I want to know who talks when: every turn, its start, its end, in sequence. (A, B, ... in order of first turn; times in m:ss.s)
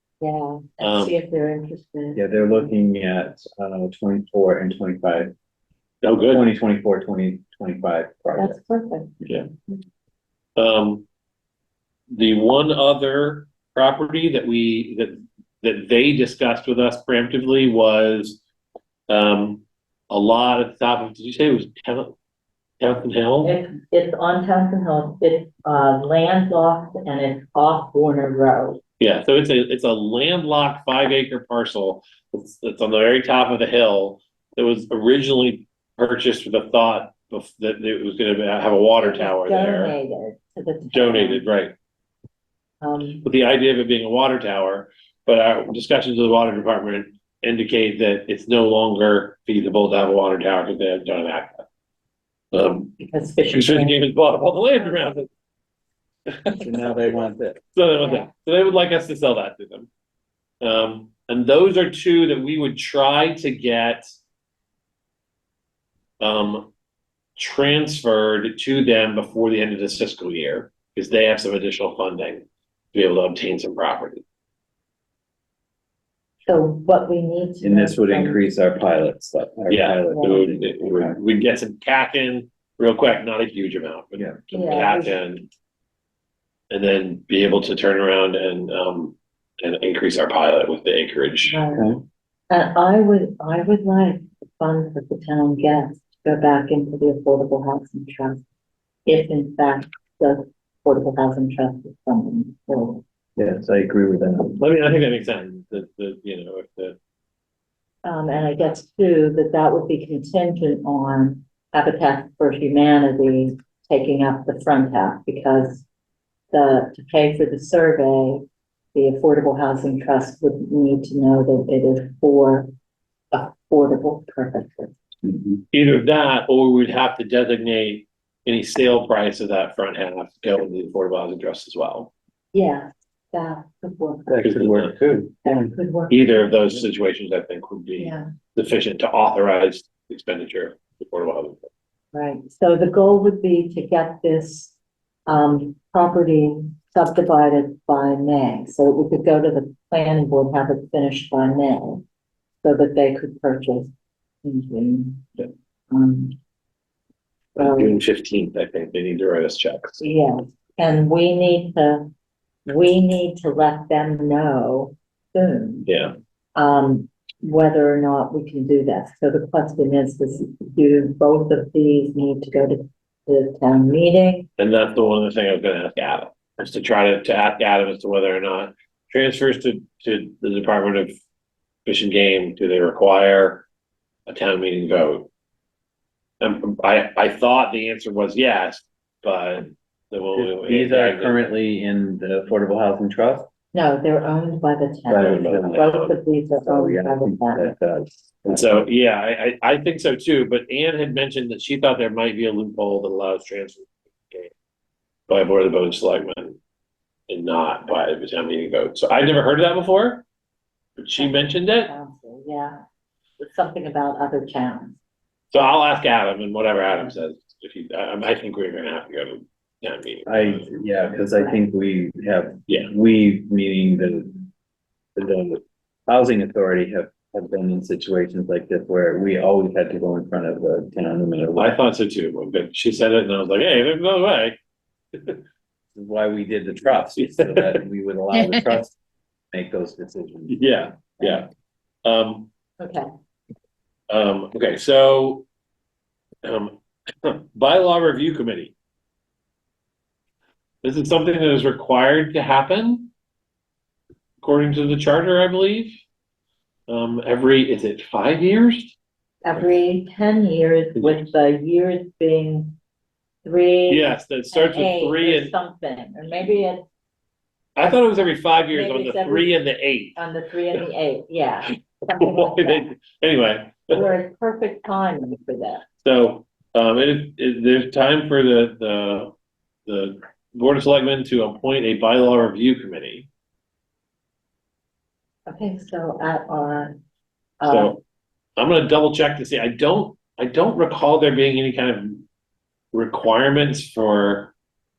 0:00.2-0:02.6 A
0:00.8-0:01.1 B
0:02.2-0:05.3 C
0:06.0-0:06.5 B
0:06.2-0:08.6 C
0:08.4-0:09.1 A
0:10.6-0:11.0 B
0:12.1-0:18.4 B
0:19.1-0:22.2 B
0:22.8-0:23.6 B
0:23.4-0:28.8 A
0:29.0-0:40.0 B
0:39.0-0:41.4 A
0:40.9-0:41.7 B
0:42.8-0:43.3 A
0:43.2-0:51.6 B
0:52.5-0:55.3 B
0:53.0-0:54.0 A
0:56.3-0:56.6 B
0:56.6-0:57.6 C
0:57.7-0:59.9 B
0:58.0-0:58.3 A
1:00.6-1:04.0 B
1:06.2-1:06.7 B
1:07.4-1:14.2 B
1:16.5-1:18.4 A
1:17.6-1:21.2 C
1:19.7-1:25.5 B
1:20.1-1:20.4 A
1:24.5-1:25.2 A
1:26.7-1:31.6 B
1:31.5-1:31.9 A
1:31.7-1:32.0 C
1:32.5-1:38.4 A
1:39.1-1:43.0 A
1:43.4-1:44.6 C
1:44.6-1:47.0 B
1:48.0-1:55.8 A
1:56.5-1:58.4 A
1:59.0-2:02.7 A
2:03.3-2:05.0 A
2:05.2-2:05.6 C
2:05.7-2:12.1 B
2:12.5-2:14.4 A
2:14.3-2:15.8 C
2:14.4-2:15.0 B
2:15.4-2:16.6 A
2:16.1-2:21.7 B
2:18.0-2:18.3 A
2:22.1-2:24.7 A
2:25.3-2:32.0 A
2:32.6-2:33.9 A
2:34.4-2:35.2 A
2:35.9-2:36.4 A
2:37.6-2:40.1 B
2:37.6-2:38.0 A
2:40.0-2:42.1 A
2:42.7-2:45.9 A
2:45.9-2:46.1 B
2:46.6-2:54.5 A
2:54.6-3:01.1 B
3:01.9-3:03.6 B
3:04.3-3:05.3 B
3:06.4-3:11.4 B
3:10.4-3:13.5 C
3:13.7-3:17.7 A
3:15.1-3:15.8 C
3:15.1-3:16.2 B
3:16.6-3:18.9 C
3:18.5-3:24.5 B
3:25.3-3:26.6 B
3:27.3-3:30.2 B
3:31.0-3:31.9 B
3:31.2-3:32.8 A
3:33.4-3:35.0 A
3:35.5-3:40.7 B
3:40.3-3:44.4 C
3:41.3-3:41.6 A
3:45.2-3:51.7 C
3:51.6-3:54.6 B
3:55.2-3:55.4 B
3:55.9-3:59.0 C
3:57.2-3:57.8 B
3:59.5-4:00.7 C
4:00.5-4:01.5 B
4:01.2-4:01.4 C
4:02.0-4:02.5 B
4:02.8-4:03.1 A
4:04.1-4:05.4 B
4:06.4-4:08.7 B
4:10.8-4:13.1 B
4:14.4-4:15.9 B
4:16.9-4:19.0 B
4:19.4-4:22.8 A
4:23.4-4:26.8 A
4:23.9-4:25.5 B
4:27.8-4:30.2 B
4:28.7-4:29.5 A
4:30.2-4:32.9 A
4:32.2-4:34.0 B
4:33.9-4:35.8 A
4:36.0-4:39.3 B
4:39.9-4:43.3 B
4:45.5-4:46.9 A
4:47.6-4:48.0 A
4:47.7-4:48.0 B
4:48.6-4:52.2 B
4:52.9-4:54.5 B